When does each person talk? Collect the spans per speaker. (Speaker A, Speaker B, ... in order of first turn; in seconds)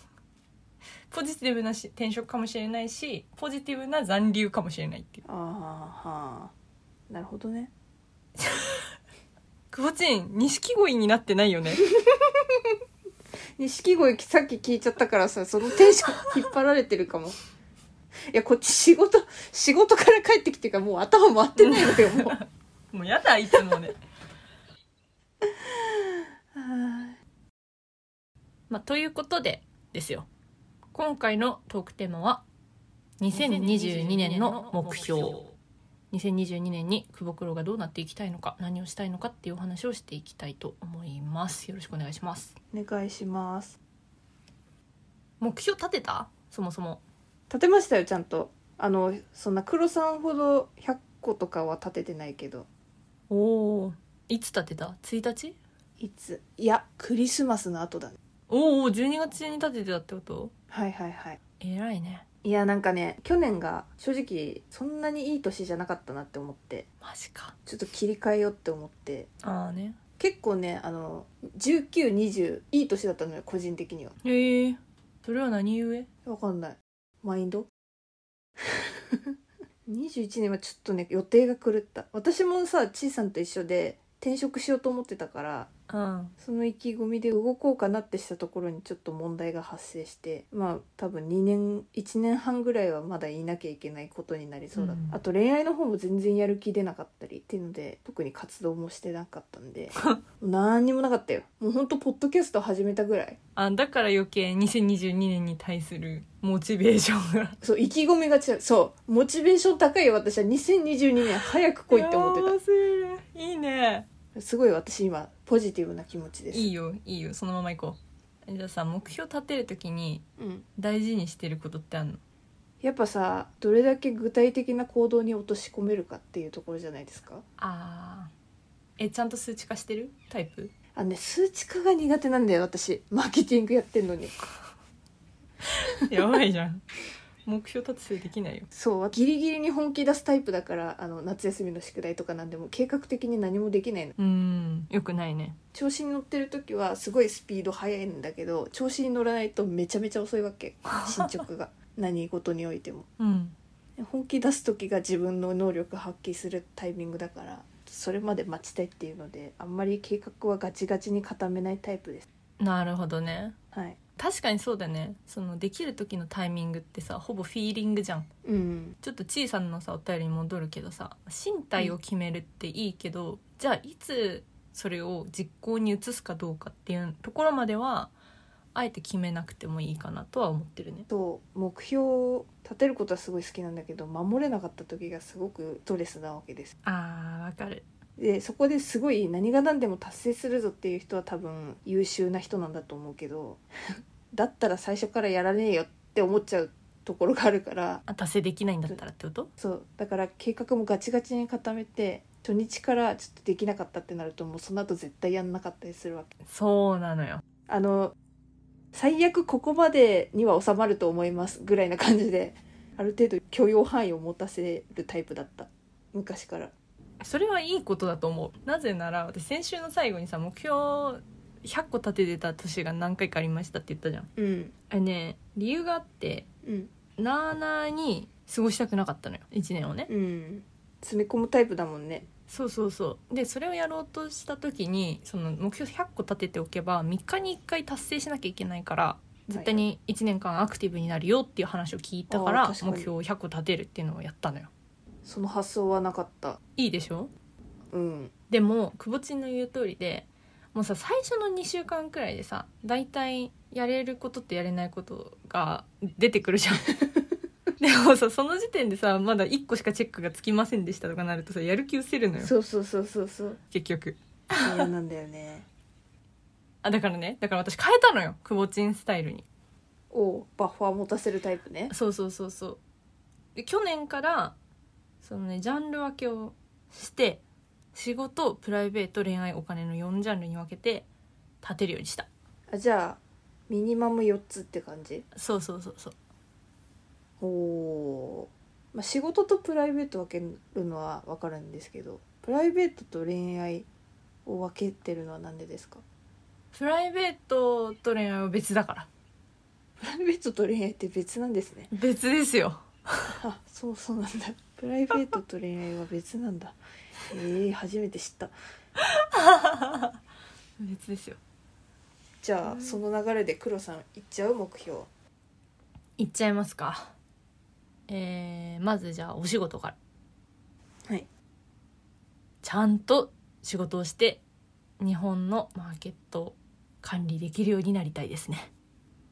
Speaker A: 1.1-5.2, 8.4-8.8, 9.7-11.8, 21.6-24.0, 28.7-30.3, 30.9-32.4, 33.2-35.5, 36.1-42.5, 45.4-47.0, 53.3-55.5, 58.5-60.5, 61.6-62.2, 67.0-67.5, 69.4-70.0, 74.2-76.1, 85.9-86.3, 94.7-95.2, 103.5-107.6, 111.9-114.1, 116.5-120.2, 120.8-122.2, 127.6-128.3, 129.0-130.7, 135.7-136.8, 137.4-138.7, 144.2-145.6, 150.9-151.4, 153.2-153.5, 162.6-163.6, 164.2-168.3, 169.0-178.1, 178.7-181.1, 186.8-187.8, 198.1-199.5, 206.4-207.4, 217.2-224.3, 224.9-226.5, 227.2-230.1, 232.5-244.7, 246.8-247.3, 248.5-256.9, 257.8-262.5, 263.7-264.9, 266.8-269.4, 271.9-272.8, 273.5-274.6, 275.2-277.4, 277.9-281.1, 281.6-282.3, 285.3-286.1, 296.7-299.1, 301.9-303.4, 309.0-310.1, 310.8-311.4, 312.6-313.0, 316.2-317.1, 318.1-319.9, 322.6-324.4, 325.0-328.7
Speaker B: 5.2-6.5, 7.1-7.7, 11.9-12.7, 13.6-17.4, 18.3-22.4, 25.4-27.2, 33.3-35.3, 42.7-43.8, 47.5-52.6, 56.0-58.2, 60.7-61.4, 62.4-66.8, 67.7-69.3, 70.2-74.1, 76.2-77.7, 78.6-79.3, 79.8-85.7, 86.4-103.4, 107.6-112.5, 114.3-116.7, 120.4-120.7, 122.8-127.4, 130.9-134.3, 138.7-144.1, 145.7-153.1, 154.0-162.2, 163.7-164.0, 168.4-169.0, 181.1-186.7, 188.2-193.6, 194.3-198.0, 199.6-206.3, 207.7-208.1, 208.9-216.7, 224.3-224.7, 226.6-226.9, 230.1-232.3, 239.5-239.8, 242.3-243.1, 245.2-246.6, 247.9-248.3, 262.4-263.6, 264.6-265.7, 270.1-271.9, 282.7-285.2, 287.4-293.9, 294.4-296.0, 300.0-301.9, 303.4-306.8, 307.3-308.5, 312.4-315.1